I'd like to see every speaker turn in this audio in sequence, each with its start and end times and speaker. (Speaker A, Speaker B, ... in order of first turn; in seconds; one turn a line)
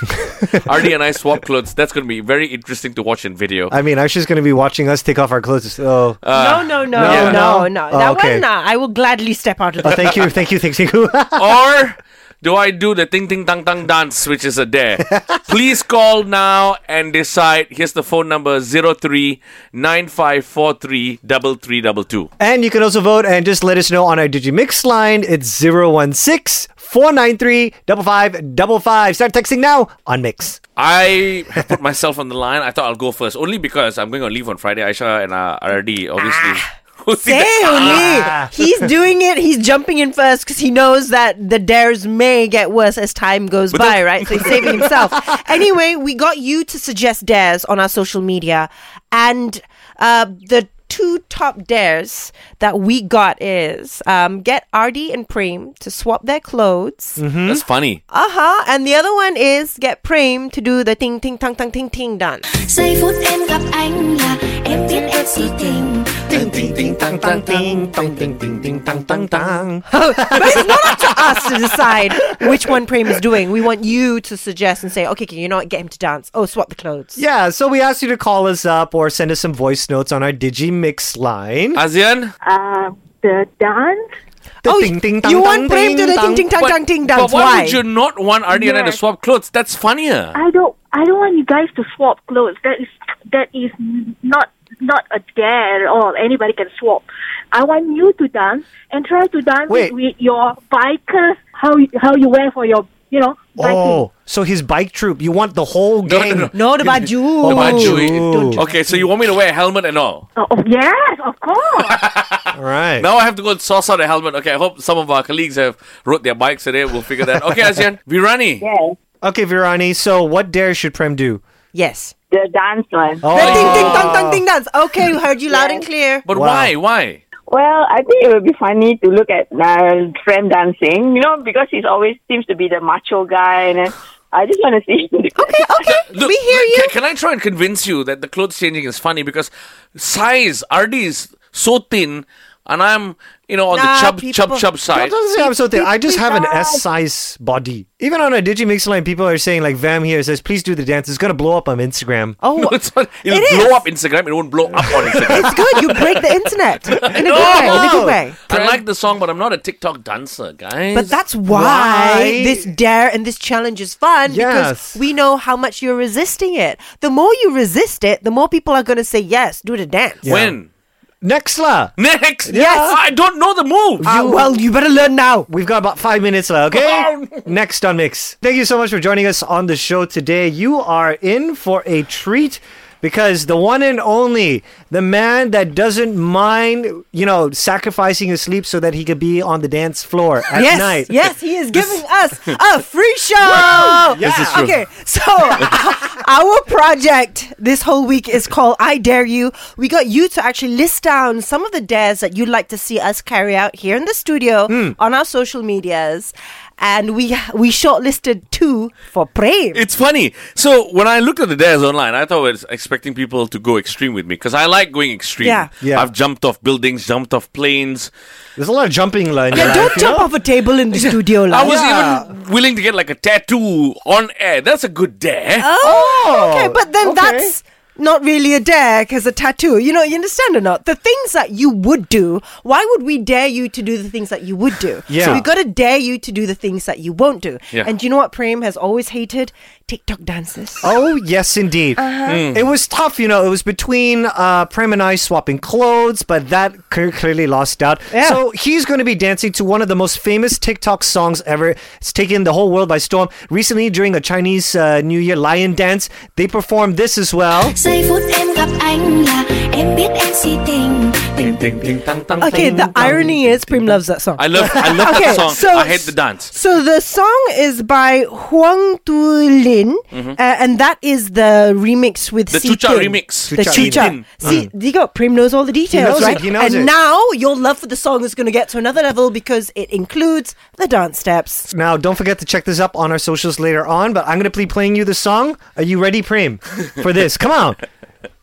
Speaker A: 0.3-3.7
Speaker B: 3.7-6.2
Speaker A: 6.2-7.4
Speaker C: 6.3-10.2
Speaker B: 6.9-8.4
Speaker B: 9.8-11.5
Speaker A: 11.3-22.3
Speaker B: 15.0-15.4
Speaker B: 22.4-30.6
Speaker A: 30.8-38.4
Speaker C: 37.2-57.2
Speaker B: 37.8-38.5
Speaker A: 43.7-44.9
Speaker B: 57.2-57.6
Speaker A: 57.5-58.0
Speaker C: 58.1-62.5
Speaker D: 62.5-66.2
Speaker B: 66.3-71.2
Speaker A: 66.3-69.7
Speaker C: 69.9-77.2
Speaker A: 70.4-70.7
Speaker B: 77.2-81.8
Speaker A: 81.7-82.3
Speaker E: 82.4-84.0
Speaker B: 84.6-86.5
Speaker C: 84.6-87.8
Speaker A: 86.6-90.3
Speaker E: 90.3-104.0
Speaker B: 99.7-99.9
Speaker B: 103.6-106.5
Speaker A: 106.0-110.2
Speaker C: 106.5-109.0
Speaker B: 107.4-108.6
Speaker E: 110.3-112.0
Speaker A: 111.9-118.7
Speaker B: 112.5-113.1
Speaker B: 117.4-117.7
Speaker F: 118.6-118.9
Speaker B: 119.2-121.4
Speaker C: 121.7-122.1
Speaker F: 122.3-124.0
Speaker B: 123.2-124.4
Speaker C: 123.3-126.2
Speaker A: 123.3-124.2
Speaker F: 125.5-125.8
Speaker A: 126.2-127.2
Speaker B: 126.3-126.7
Speaker F: 127.5-136.0
Speaker C: 135.3-136.9
Speaker A: 136.1-145.1
Speaker C: 143.7-144.7
Speaker B: 144.9-152.4
Speaker C: 145.3-146.8
Speaker C: 152.4-153.8
Speaker A: 152.6-156.2
Speaker B: 154.8-155.5
Speaker C: 155.3-158.4
Speaker A: 156.9-161.1
Speaker B: 157.2-158.8
Speaker C: 160.9-170.2
Speaker B: 161.5-162.7
Speaker B: 164.2-165.0
Speaker B: 170.2-170.6
Speaker A: 170.2-170.7
Speaker B: 171.2-171.9
Speaker A: 172.0-174.1
Speaker B: 172.5-173.0
Speaker C: 172.5-173.0
Speaker B: 174.0-174.5
Speaker C: 174.0-175.5
Speaker B: 175.5-191.1
Speaker A: 176.7-177.4
Speaker C: 190.5-209.8
Speaker B: 193.4-194.7
Speaker A: 194.2-194.7
Speaker B: 204.7-204.9
Speaker A: 209.7-218.1
Speaker C: 215.4-215.7
Speaker B: 215.8-216.1
Speaker B: 218.6-220.3
Speaker A: 219.5-220.1
Speaker C: 219.5-221.8
Speaker A: 220.9-225.7
Speaker B: 221.6-222.3
Speaker C: 225.6-240.9
Speaker B: 225.8-227.5
Speaker B: 235.1-235.4
Speaker A: 235.1-235.4
Speaker B: 240.8-257.8
Speaker C: 242.0-242.4
Speaker A: 242.3-242.7
Speaker C: 248.1-248.4
Speaker D: 257.7-261.6
Speaker A: 261.4-263.3
Speaker B: 262.3-264.0
Speaker C: 262.4-281.7
Speaker A: 264.4-266.5
Speaker B: 264.8-265.2
Speaker A: 270.1-270.4
Speaker A: 272.5-274.5
Speaker B: 273.5-274.7
Speaker B: 275.9-276.9
Speaker B: 281.7-287.8